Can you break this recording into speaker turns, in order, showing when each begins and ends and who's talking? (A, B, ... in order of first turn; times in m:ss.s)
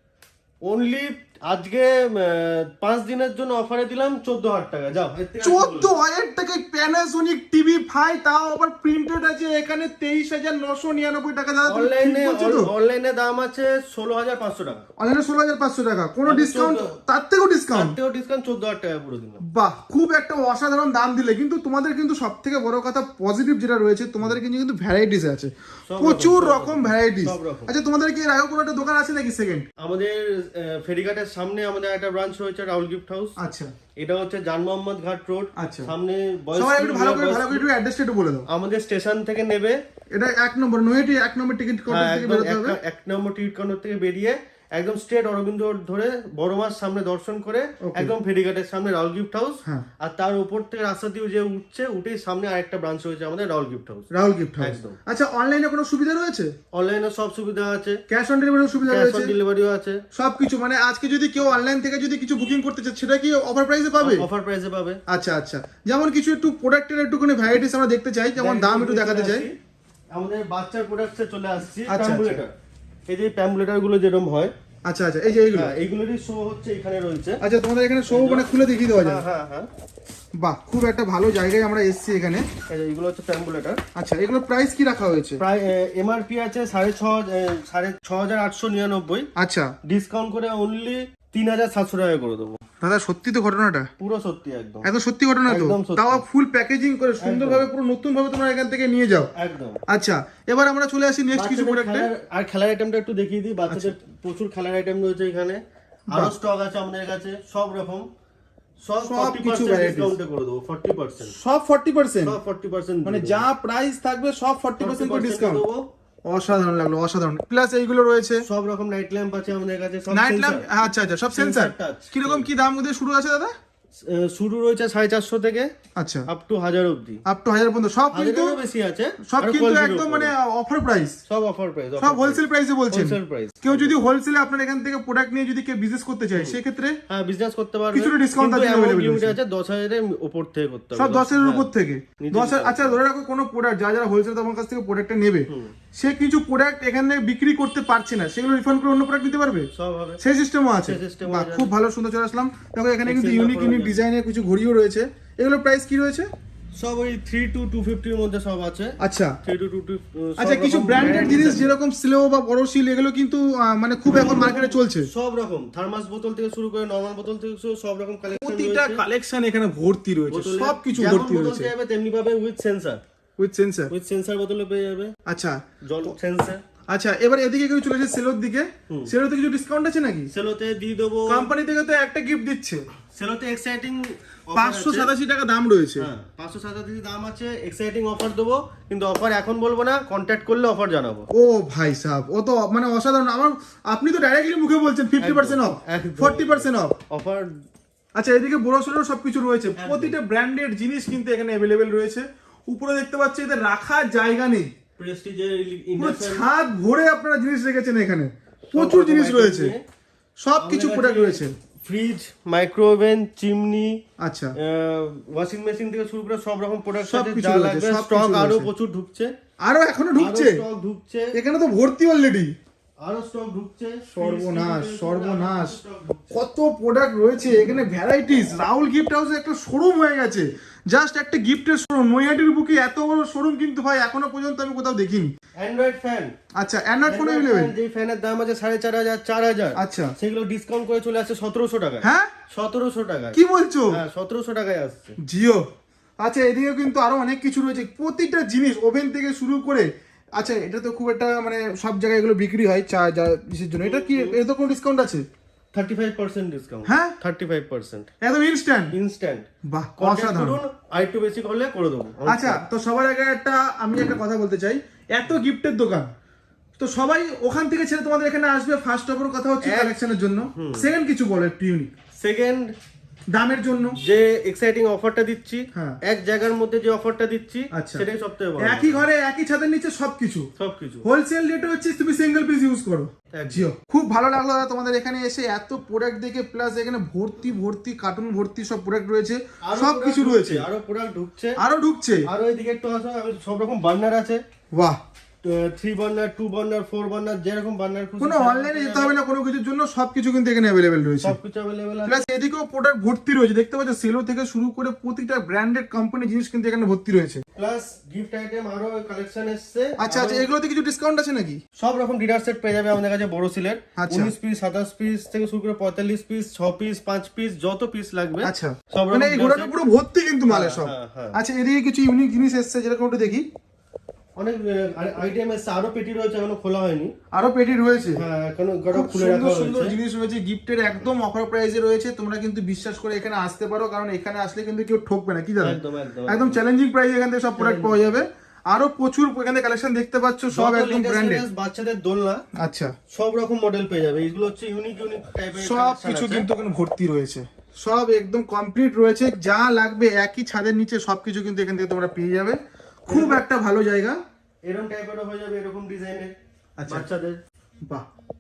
0:00.6-0:06.0 A
0:05.4-0:12.7 B
0:11.6-0:14.9 A
0:15.0-0:18.0 B
0:16.2-0:17.0 A
0:17.7-0:19.4 A
0:19.5-0:29.7 B
0:25.9-0:27.7 A
0:29.8-0:33.4 A
0:33.4-0:33.7 B
0:34.0-0:37.7 A
0:35.6-0:35.9 B
0:36.6-0:38.5 B
0:38.5-0:39.8 A
0:40.1-0:42.8 B
0:41.9-0:55.0 A
0:47.8-0:48.2 B
0:54.1-0:56.5 B
0:56.7-0:58.0 A
0:58.1-0:59.3 B
0:58.8-1:00.0 A
1:00.1-1:04.2 B
1:04.0-1:05.0 A
1:05.1-1:09.5 B
1:08.4-1:09.6 A
1:10.1-1:12.5 A
1:11.9-1:12.4 B
1:13.1-1:14.5 A
1:14.8-1:15.7 B
1:15.5-1:17.4 A
1:17.4-1:19.2 B
1:18.1-1:19.7 A
1:20.4-1:22.5 B
1:22.7-1:23.8 A
1:24.0-1:25.4 B
1:25.4-1:29.3 A
1:29.4-1:29.7 B
1:29.9-1:32.6 A
1:32.8-1:33.9 B
1:34.0-1:34.9 A
1:34.8-1:39.3 B
1:35.5-1:36.2 A
1:37.2-1:37.7 A
1:39.4-1:39.8 A
1:39.9-1:42.1 B
1:41.3-1:48.1 A
1:48.8-1:51.4 A
1:49.0-1:50.2 B
1:51.3-1:52.4 B
1:52.2-1:53.5 A
1:53.0-1:55.6 B
1:54.8-1:55.9 A
1:56.3-1:58.4 B
1:58.4-2:00.7 A
2:00.1-2:03.5 B
2:01.3-2:02.5 A
2:04.0-2:05.7 A
2:06.0-2:06.3 B
2:06.3-2:07.2 A
2:07.3-2:08.6 B
2:08.1-2:10.3 A
2:09.3-2:11.2 B
2:11.3-2:14.0 A
2:12.0-2:17.0 B
2:17.1-2:21.7 A
2:17.9-2:19.4 B
2:21.0-2:29.7 B
2:22.2-2:23.0 A
2:25.5-2:25.7 A
2:29.7-2:30.2 A
2:30.2-2:36.3 B
2:30.8-2:31.7 A
2:33.1-2:34.0 A
2:36.8-2:41.8 A
2:39.0-2:39.4 B
2:40.4-2:45.1 B
2:44.1-2:49.0 A
2:48.3-2:51.7 B
2:50.3-2:53.0 A
2:53.4-2:53.9 B
2:53.9-2:55.1 A
2:55.3-2:56.1 B
2:55.9-2:56.6 A
2:56.9-3:00.3 B
3:00.3-3:01.5 A
3:01.3-3:02.8 B
3:03.2-3:05.1 A
3:04.6-3:06.1 B
3:06.0-3:11.3 A
3:11.3-3:17.0 B
3:15.2-3:17.5 A
3:18.2-3:24.7 B
3:19.8-3:20.2 A
3:25.0-3:26.5 A
3:26.0-3:29.7 B
3:28.7-3:29.8 A
3:30.4-3:31.6 B
3:30.6-3:34.0 A
3:34.2-3:34.6 B
3:34.6-3:39.3 A
3:37.1-3:38.7 B
3:39.6-3:40.6 B
3:40.2-3:41.3 A
3:41.3-3:42.5 B
3:43.0-3:46.3 A
3:44.1-3:45.8 B
3:46.3-3:55.3 B
3:55.6-3:56.3 A
3:56.6-3:57.7 B
3:57.0-4:03.4 A
3:59.8-4:00.1 B
4:02.0-4:02.3 B
4:03.3-4:04.0 B
4:03.9-4:05.2 A
4:05.2-4:05.6 B
4:06.2-4:15.2 B
4:13.8-4:14.4 A
4:15.7-4:18.1 A
4:16.9-4:17.2 B
4:18.2-4:18.9 B
4:18.9-4:19.4 A
4:19.7-4:20.6 B
4:20.0-4:22.6 A
4:22.3-4:26.1 B
4:26.8-4:31.9 B
4:29.6-4:30.9 A
4:32.2-4:32.7 A
4:33.3-4:34.0 B
4:34.0-4:39.1 A
4:37.7-4:38.0 B
4:38.6-4:40.5 B
4:40.6-4:41.0 A
4:41.0-4:50.6 B
4:43.4-4:43.7 A
4:49.6-4:51.6 A
4:51.6-4:52.2 B
4:52.3-4:54.4 A
4:54.7-4:55.0 B
4:55.4-4:59.2 A
4:58.2-5:01.4 B
5:01.2-5:02.2 A
5:02.1-5:07.4 B
5:07.6-5:10.5 A
5:10.0-5:11.6 B
5:11.8-5:19.7 A
5:14.0-5:14.3 B
5:18.4-5:23.4 B
5:20.5-5:21.4 A
5:24.4-5:27.1 A
5:27.3-5:28.2 B
5:28.2-5:30.0 A
5:28.9-5:41.4 B
5:35.6-5:36.6 A
5:37.6-5:38.2 A
5:40.5-5:42.5 A
5:42.6-5:43.0 B
5:43.1-5:46.5 A
5:45.6-5:54.2 B
5:53.1-5:53.4 A
5:54.6-5:56.3 A
5:56.8-5:57.1 B
5:56.9-5:57.4 A